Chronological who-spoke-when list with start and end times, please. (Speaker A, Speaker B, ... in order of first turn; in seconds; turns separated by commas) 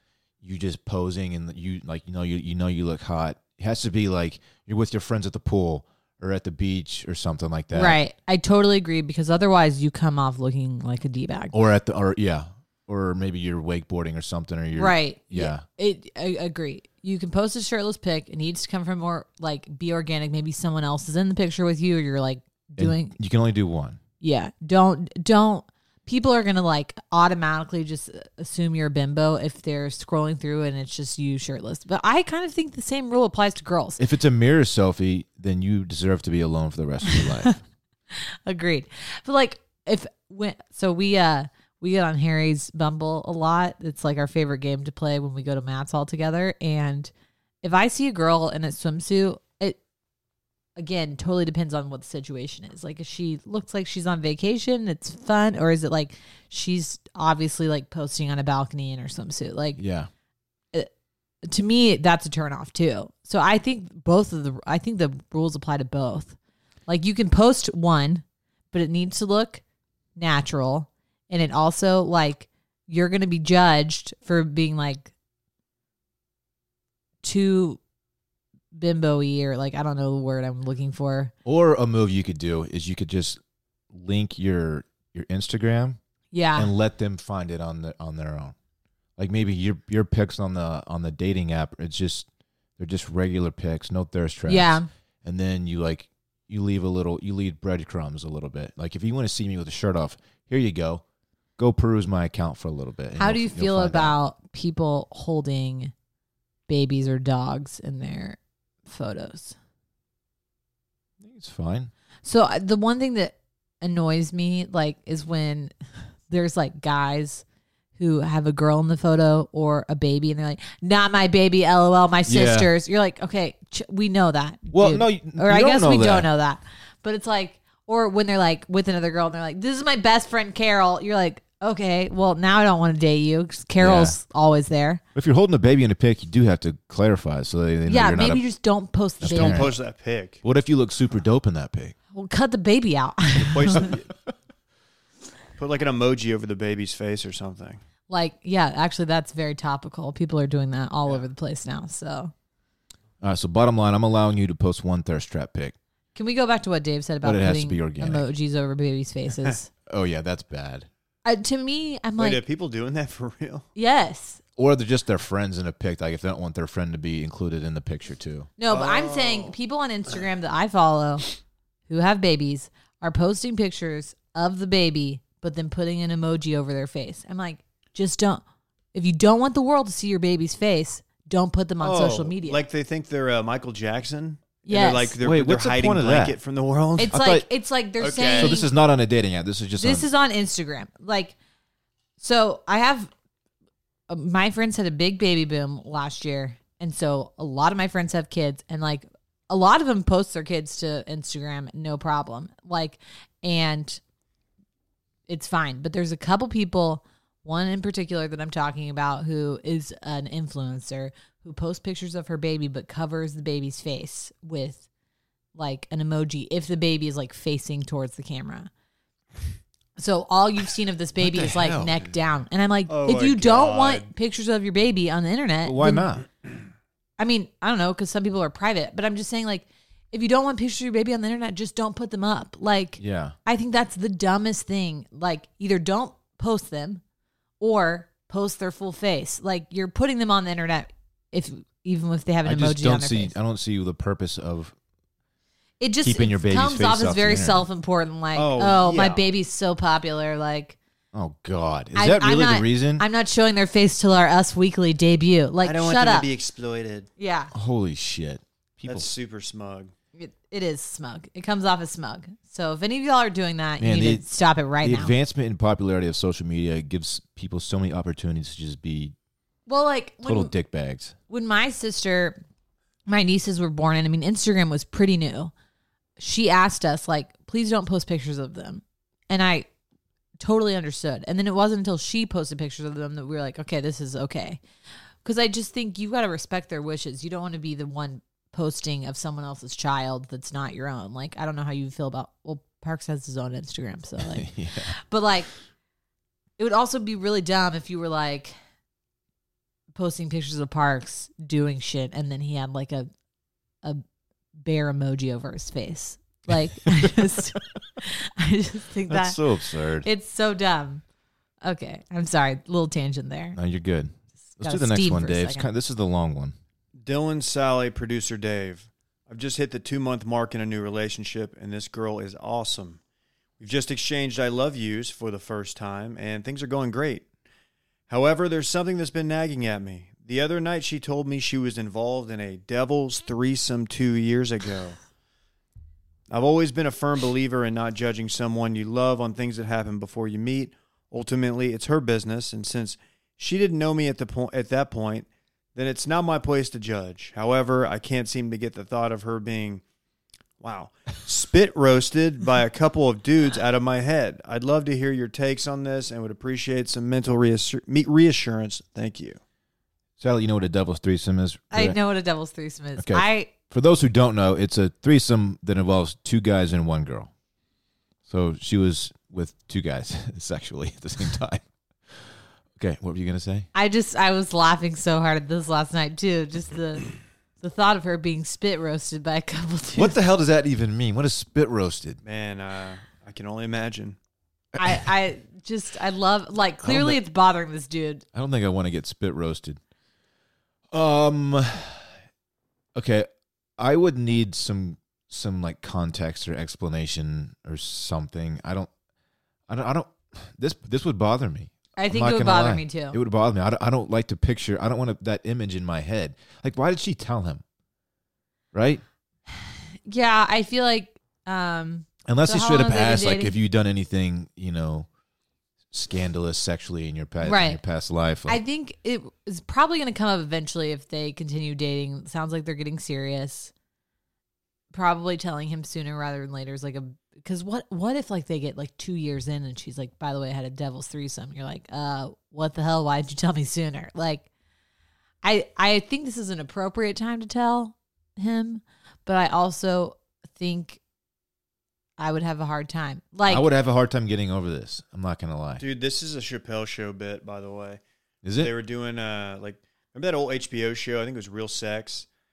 Speaker A: 0.4-8.0, Speaker B: 7.7-11.5, Speaker A: 11.5-15.6, Speaker B: 14.8-23.1, Speaker A: 22.8-24.0, Speaker B: 24.2-34.0, Speaker A: 34.0-37.6, Speaker B: 37.0-37.5, Speaker B: 38.1-49.8, Speaker B: 50.8-59.8, Speaker A: 59.8-60.1, Speaker B: 61.4-66.3, Speaker B: 66.9-69.6, Speaker B: 70.2-75.1, Speaker B: 77.2-77.8, Speaker B: 78.7-81.3, Speaker A: 81.4-83.4, Speaker A: 83.9-86.0, Speaker B: 86.3-86.7, Speaker A: 86.5-88.5, Speaker A: 89.2-92.3, Speaker A: 92.8-101.0, Speaker B: 94.5-94.9, Speaker A: 101.6-104.2, Speaker B: 103.2-105.9, Speaker B: 106.7-109.6, Speaker A: 111.2-111.9, Speaker B: 112.2-115.7, Speaker B: 116.3-117.4, Speaker B: 118.0-135.0, Speaker A: 122.3-122.7, Speaker A: 124.7-126.3, Speaker A: 133.8-134.2, Speaker A: 135.1-138.4, Speaker B: 137.9-139.7, Speaker A: 139.2-139.7, Speaker C: 139.2-140.4, Speaker A: 140.4-141.9, Speaker B: 142.1-143.9, Speaker C: 143.3-144.1, Speaker C: 145.6-147.8, Speaker B: 148.1-152.3, Speaker A: 153.2-155.8, Speaker B: 156.1-159.7, Speaker A: 157.2-158.2, Speaker A: 159.9-160.9, Speaker B: 161.2-162.4, Speaker C: 162.2-163.7, Speaker B: 163.7-164.4, Speaker A: 164.6-168.5, Speaker B: 168.6-171.3, Speaker C: 168.7-169.5, Speaker B: 171.9-178.4, Speaker B: 178.9-182.6, Speaker C: 181.8-187.2, Speaker B: 184.6-185.2, Speaker A: 185.2-186.4, Speaker B: 187.0-188.7, Speaker A: 187.1-187.4, Speaker C: 188.0-188.6, Speaker A: 188.4-190.1, Speaker B: 189.8-191.3, Speaker B: 192.2-193.1, Speaker B: 194.1-204.0, Speaker B: 205.3-214.8, Speaker B: 215.5-218.7, Speaker B: 220.0-226.1, Speaker A: 221.2-222.1, Speaker C: 222.9-224.1, Speaker A: 225.6-226.2, Speaker B: 227.2-237.0, Speaker A: 233.0-233.3, Speaker B: 237.6-243.3, Speaker A: 242.4-244.7, Speaker B: 245.8-250.8, Speaker A: 246.0-247.6, Speaker C: 248.3-249.2, Speaker A: 251.1-253.0, Speaker B: 251.9-256.3, Speaker C: 255.6-257.1, Speaker B: 257.2-257.5, Speaker A: 257.5-259.1, Speaker C: 258.9-259.9, Speaker B: 260.1-265.1, Speaker A: 263.8-264.2, Speaker A: 264.8-269.1, Speaker B: 269.7-270.5, Speaker A: 270.2-271.1, Speaker B: 271.3-272.4, Speaker B: 273.1-275.5, Speaker B: 276.2-279.7, Speaker B: 280.4-284.6, Speaker B: 285.2-295.5, Speaker A: 294.2-294.9, Speaker B: 296.6-298.5, Speaker B: 299.9-303.1, Speaker B: 304.6-309.4, Speaker A: 306.8-307.3, Speaker A: 309.1-310.1, Speaker B: 310.0-311.0, Speaker B: 311.6-313.6, Speaker A: 313.5-316.5, Speaker B: 314.6-315.7, Speaker C: 317.0-323.0, Speaker C: 323.6-327.3, Speaker C: 328.1-335.0, Speaker C: 336.3-349.8, Speaker C: 350.6-359.4, Speaker A: 360.2-362.0, Speaker B: 361.7-363.5, Speaker A: 363.0-367.3, Speaker A: 368.3-373.7, Speaker B: 373.7-380.1, Speaker A: 379.9-382.2, Speaker C: 382.2-384.2, Speaker A: 384.7-385.0, Speaker B: 384.8-388.2, Speaker A: 386.8-387.2, Speaker A: 388.3-389.8, Speaker A: 390.9-392.1, Speaker A: 392.9-398.9, Speaker A: 399.7-407.6, Speaker B: 401.9-403.2, Speaker A: 408.7-409.0, Speaker B: 409.5-413.5, Speaker A: 412.2-415.1, Speaker A: 415.9-418.6, Speaker B: 417.4-417.8, Speaker B: 418.5-423.7, Speaker B: 424.9-434.5, Speaker B: 435.4-441.0, Speaker B: 442.2-443.7, Speaker A: 443.5-445.8, Speaker C: 445.8-448.0, Speaker A: 448.4-448.7, Speaker C: 448.6-452.3